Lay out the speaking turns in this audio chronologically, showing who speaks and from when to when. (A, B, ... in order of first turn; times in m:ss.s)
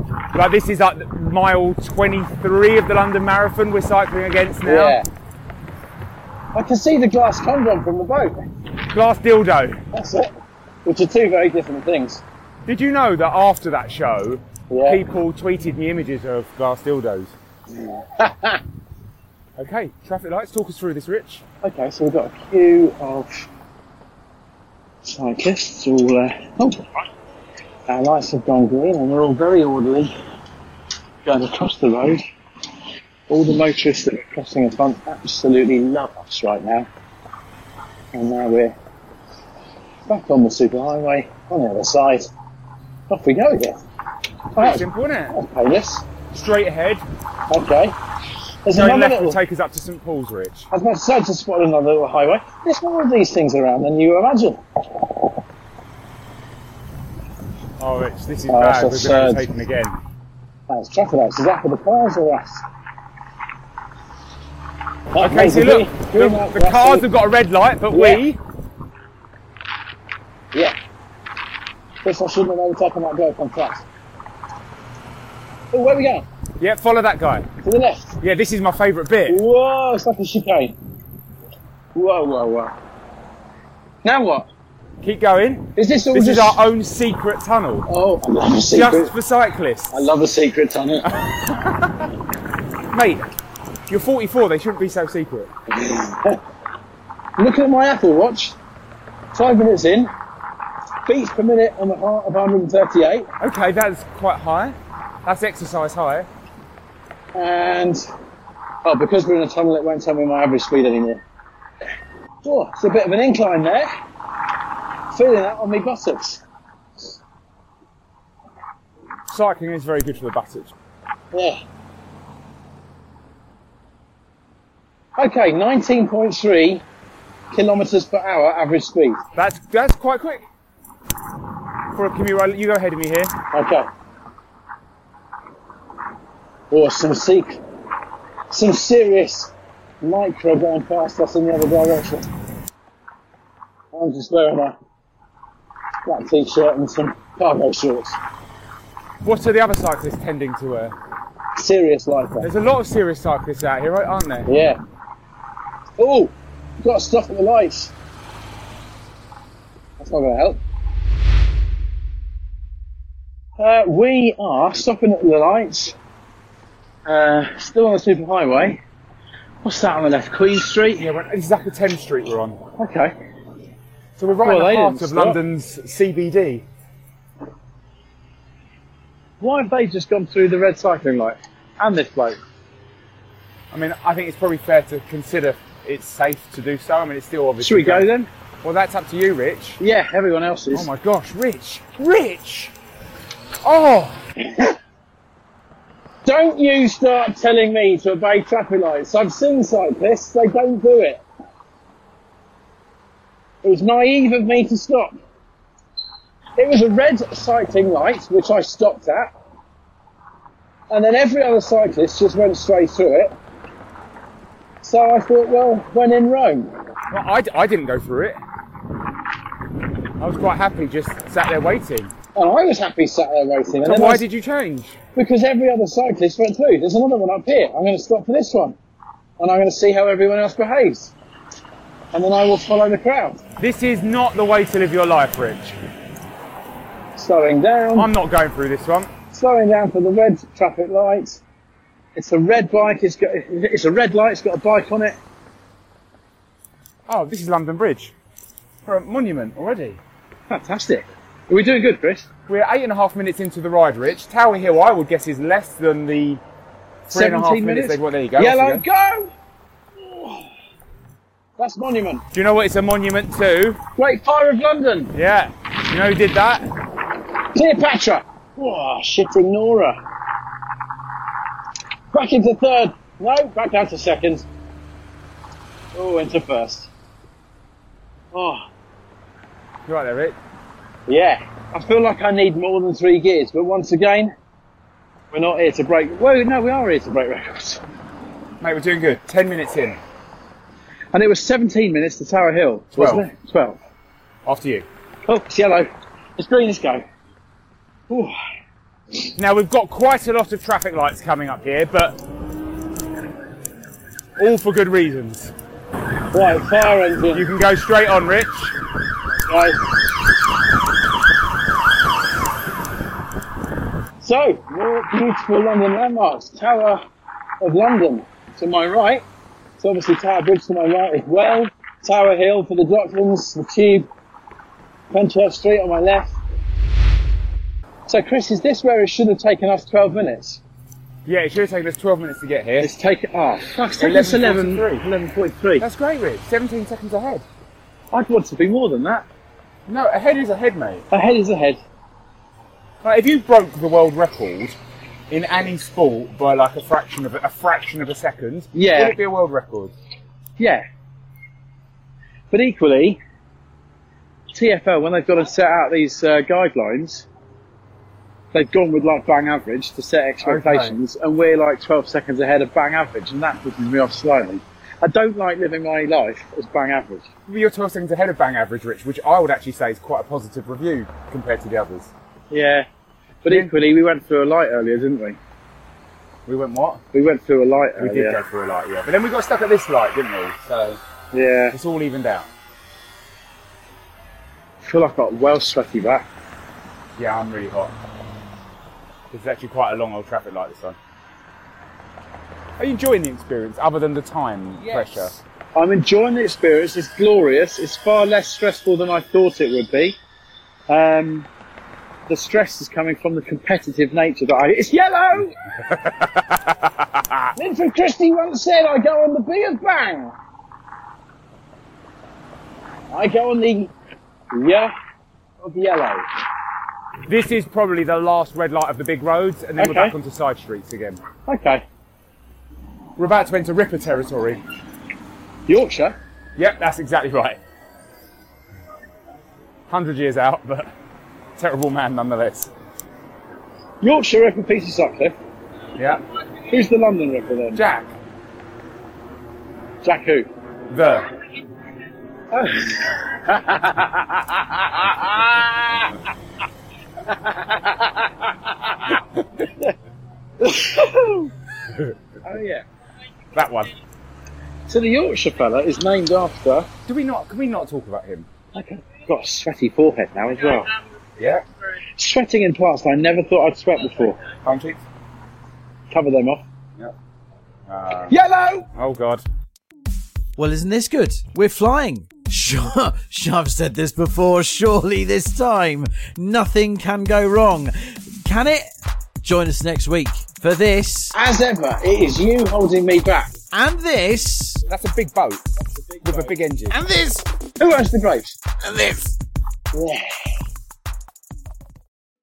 0:00.3-0:05.0 A
0:04.6-0:05.0 B
0:06.5-0:08.4 B
0:08.9-0:09.8 A
0:09.9-0:10.3 B
0:10.8-0:12.2 B
0:12.6-0:17.3 A
0:14.7-0:15.0 B
0:17.8-0:18.6 B
0:19.6-0:21.4 A
0:21.6-0:23.5 B
0:25.0-0:27.0 B
0:27.9-0:30.2 B
0:31.2-0:32.2 B
0:33.3-0:36.9 B
0:38.1-0:38.8 B
0:40.1-0:42.3 B
0:43.1-0:43.8 B
0:44.5-0:46.0 B
0:44.6-0:45.4 A
0:46.3-0:47.0 A
0:47.5-0:48.0 B
0:48.6-0:49.4 B
0:48.7-0:50.7 A
0:50.7-0:55.3 B
0:57.8-1:00.0 A
0:58.5-0:59.5 B
1:00.7-1:02.6 B
1:05.1-1:07.0 B
1:05.2-1:08.4 A
1:07.9-1:08.2 B
1:12.0-1:13.8 B
1:15.7-1:16.2 B
1:16.6-1:17.5 A
1:17.6-1:18.2 B
1:18.2-1:19.4 A
1:19.3-1:20.8 B
1:21.9-1:22.8 B
1:24.0-1:24.5 B
1:25.0-1:27.8 A
1:25.8-1:26.6 B
1:27.9-1:29.1 B
1:28.7-1:30.1 A
1:29.9-1:31.1 B
1:31.4-1:32.1 A
1:32.9-1:33.3 A
1:33.9-1:35.5 A
1:35.7-1:36.4 B
1:37.4-1:38.6 B
1:39.3-1:40.1 B
1:41.0-1:43.3 B
1:43.4-1:46.3 A
1:47.3-1:48.0 B
1:48.8-1:51.2 B
1:52.4-1:53.9 B
1:55.1-1:56.4 B
1:59.3-2:00.7 A
2:01.3-2:01.6 B
2:05.2-2:06.8 B
2:07.5-2:09.2 B
2:09.3-2:10.4 A
2:11.9-2:13.3 A
2:13.5-2:13.9 B
2:16.7-2:17.6 B
2:18.5-2:22.3 B
2:23.9-2:24.8 B
2:26.0-2:28.2 B
2:29.2-2:31.0 A
2:31.6-2:32.5 B
2:32.4-2:34.5 A
2:34.5-2:34.8 B
2:36.0-2:37.9 B
2:40.0-2:40.6 B
2:43.6-2:46.0 B
2:47.0-2:48.8 B
2:49.6-2:51.0 B
2:51.0-2:52.6 A
2:52.8-2:53.1 B
2:54.2-2:56.6 A
2:54.4-2:55.4 B
2:59.4-3:02.4 B
3:03.7-3:08.1 A
3:07.6-3:08.3 B
3:08.6-3:09.8 A
3:09.8-3:10.9 B
3:10.7-3:12.7 A
3:13.6-3:14.2 A
3:16.2-3:21.2 B
3:23.6-3:25.2 B
3:26.6-3:29.3 B
3:30.9-3:33.3 B
3:34.8-3:36.8 B
3:37.1-3:38.4 A
3:40.2-3:42.1 A
3:42.3-3:44.2 B
3:43.8-3:45.0 A
3:45.2-3:48.8 B
3:49.4-3:51.1 B
3:52.1-3:53.4 B
3:53.6-3:55.8 A
3:57.2-3:58.1 B
3:58.0-3:59.1 A
3:59.3-4:01.4 B
4:02.2-4:05.2 B
4:07.1-4:08.1 A
4:08.8-4:10.0 A
4:10.5-4:12.3 B
4:12.5-4:16.4 A
4:17.1-4:18.8 A
4:17.1-4:19.3 B
4:20.0-4:20.5 B
4:21.6-4:22.2 B
4:22.3-4:23.8 A
4:24.0-4:25.1 B
4:25.1-4:26.7 A
4:27.5-4:30.0 B
4:32.1-4:34.5 B
4:35.9-4:36.9 B
4:38.3-4:38.6 B
4:39.9-4:40.4 A
4:41.1-4:44.3 B
4:45.3-4:47.8 B
4:48.6-4:50.0 A
4:51.1-4:53.8 B
4:53.0-4:53.2 A
4:54.4-4:54.9 A
4:55.2-4:57.0 B
4:58.1-4:58.3 B
4:59.4-5:02.2 A
5:04.4-5:05.5 A
5:06.3-5:07.5 B
5:07.3-5:08.8 A
5:09.4-5:09.8 B
5:14.2-5:17.0 B
5:17.6-5:19.2 B
5:19.8-5:24.1 B
5:25.1-5:26.4 B
5:28.1-5:30.6 B
5:31.2-5:32.9 A
5:32.8-5:35.8 B
5:34.0-5:35.0 A
5:35.8-5:37.4 A
5:38.1-5:39.3 B
5:39.9-5:41.0 A
5:41.1-5:41.8 B
5:43.0-5:44.8 A
5:45.3-5:49.9 A
5:48.7-5:49.2 B
5:50.6-5:50.8 B
5:52.5-5:53.2 B
5:54.5-5:57.2 B
5:58.5-6:07.3 B
6:00.4-6:01.0 A
6:07.5-6:12.1 A
6:12.5-6:12.9 B
6:13.4-6:15.4 B
6:13.5-6:13.7 A
6:16.5-6:17.0 A
6:17.1-6:18.4 B
6:18.0-6:21.0 A
6:21.3-6:21.8 B
6:21.7-6:22.5 A
6:24.8-6:26.2 B
6:27.2-6:27.9 A
6:29.3-6:31.0 A
6:32.8-6:35.3 A
6:34.8-6:40.2 B
6:40.9-6:41.5 B
6:42.3-6:45.6 B
6:45.9-6:46.9 A
6:47.6-6:50.4 B
6:53.1-6:53.9 B
6:54.5-6:54.9 B
6:55.6-6:56.2 B
6:57.3-7:01.2 A
6:59.8-7:00.2 B
7:01.5-7:01.8 B
7:03.2-7:04.6 A
7:05.7-7:06.2 B
7:06.6-7:07.6 A
7:09.9-7:10.9 A
7:11.6-7:12.7 A
7:14.0-7:15.3 B
7:16.0-7:16.2 A
7:16.7-7:17.8 B
7:17.7-7:18.1 A
7:20.0-7:20.5 B
7:20.9-7:21.3 A
7:22.5-7:26.1 B
7:27.3-7:29.2 B
7:30.6-7:31.5 B
7:32.4-7:32.8 B
7:33.5-7:33.9 A
7:34.9-7:36.9 B
7:37.1-7:38.5 A
7:38.7-7:40.9 B
7:42.2-7:44.4 B
7:44.6-7:45.0 A
7:46.1-7:46.6 B
7:47.9-7:48.3 A
7:48.3-7:48.9 B
7:48.9-7:49.4 A
7:50.6-7:58.8 C
7:59.4-8:01.3 C
8:01.3-8:03.5 B
8:03.7-8:04.8 C
8:04.9-8:05.6 A
8:06.1-8:06.5 B
8:06.2-8:06.9 A
8:06.9-8:07.4 C
8:07.8-8:08.6 B
8:08.8-8:09.3 C
8:09.9-8:10.2 B